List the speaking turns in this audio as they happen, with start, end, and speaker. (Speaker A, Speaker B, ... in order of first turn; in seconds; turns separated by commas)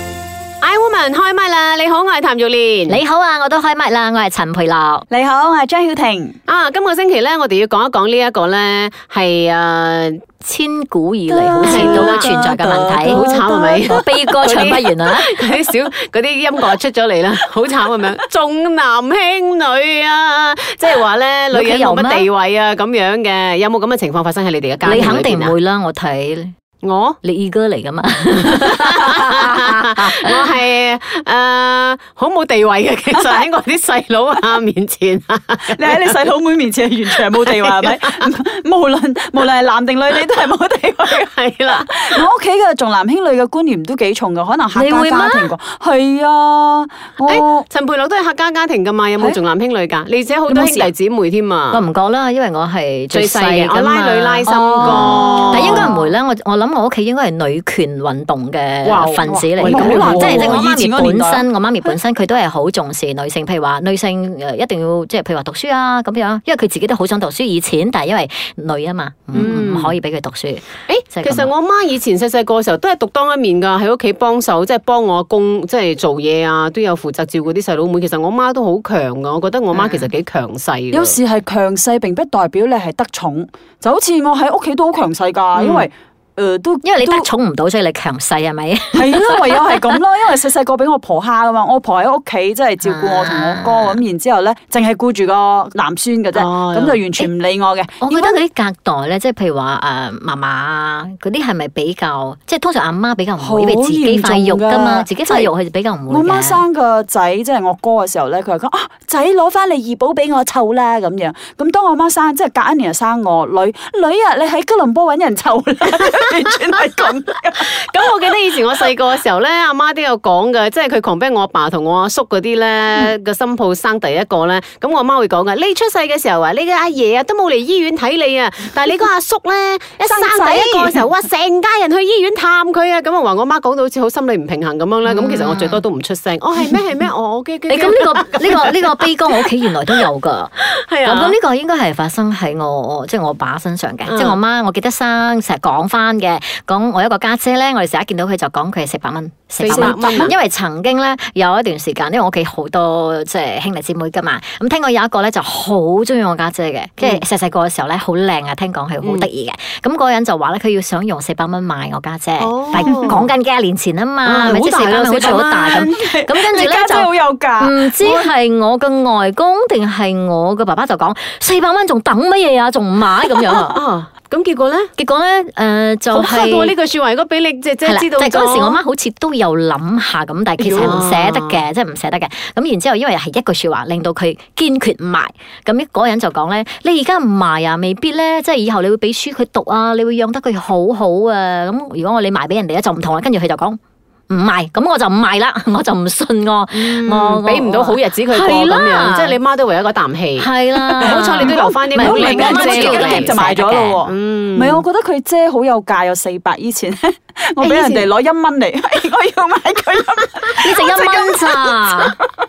Speaker A: 0.6-3.0, Speaker B: 2.9-5.0, Speaker C: 5.1-6.4, Speaker A: 6.5-10.2, Speaker B: 10.4-13.2, Speaker C: 11.3-14.2, Speaker A: 11.6-12.4, Speaker A: 13.0-25.5, Speaker B: 13.8-15.4, Speaker B: 21.5-22.3, Speaker B: 24.8-26.5, Speaker A: 26.8-27.2, Speaker B: 27.2-30.3, Speaker A: 28.6-36.2, Speaker C: 33.1-33.4, Speaker C: 35.7-47.6, Speaker A: 37.5-38.2, Speaker A: 41.1-42.2, Speaker B: 44.7-45.5, Speaker A: 47.2-51.8, Speaker C: 50.5-50.9, Speaker B: 51.7-71.5, Speaker A: 53.1-55.9, Speaker C: 54.5-56.1, Speaker A: 58.8-60.6, Speaker C: 59.2-61.5, Speaker A: 69.3-69.9, Speaker A: 70.9-81.2, Speaker B: 79.7-80.1, Speaker C: 80.9-87.3, Speaker A: 85.5-85.9, Speaker B: 86.8-90.0, Speaker C: 88.9-98.4, Speaker B: 92.8-94.0, Speaker A: 96.3-97.0, Speaker B: 98.0-106.6, Speaker C: 103.4-105.5, Speaker C: 106.1-117.7, Speaker A: 117.6-139.5, Speaker C: 130.0-130.9, Speaker B: 135.1-135.8, Speaker B: 137.7-173.8, Speaker A: 140.7-141.4, Speaker A: 144.1-144.4, Speaker A: 149.6-150.3, Speaker C: 149.7-150.3, Speaker A: 157.0-157.2, Speaker A: 159.0-159.3, Speaker A: 162.4-163.3, Speaker A: 164.2-165.9, Speaker C: 165.0-168.3, Speaker A: 173.5-174.9, Speaker B: 175.0-176.7, Speaker A: 176.1-178.8, Speaker B: 177.8-199.4, Speaker A: 180.6-181.6, Speaker A: 196.7-203.4, Speaker B: 200.4-204.0, Speaker C: 200.8-212.0, Speaker A: 204.0-204.8, Speaker A: 207.6-208.1, Speaker B: 210.6-212.2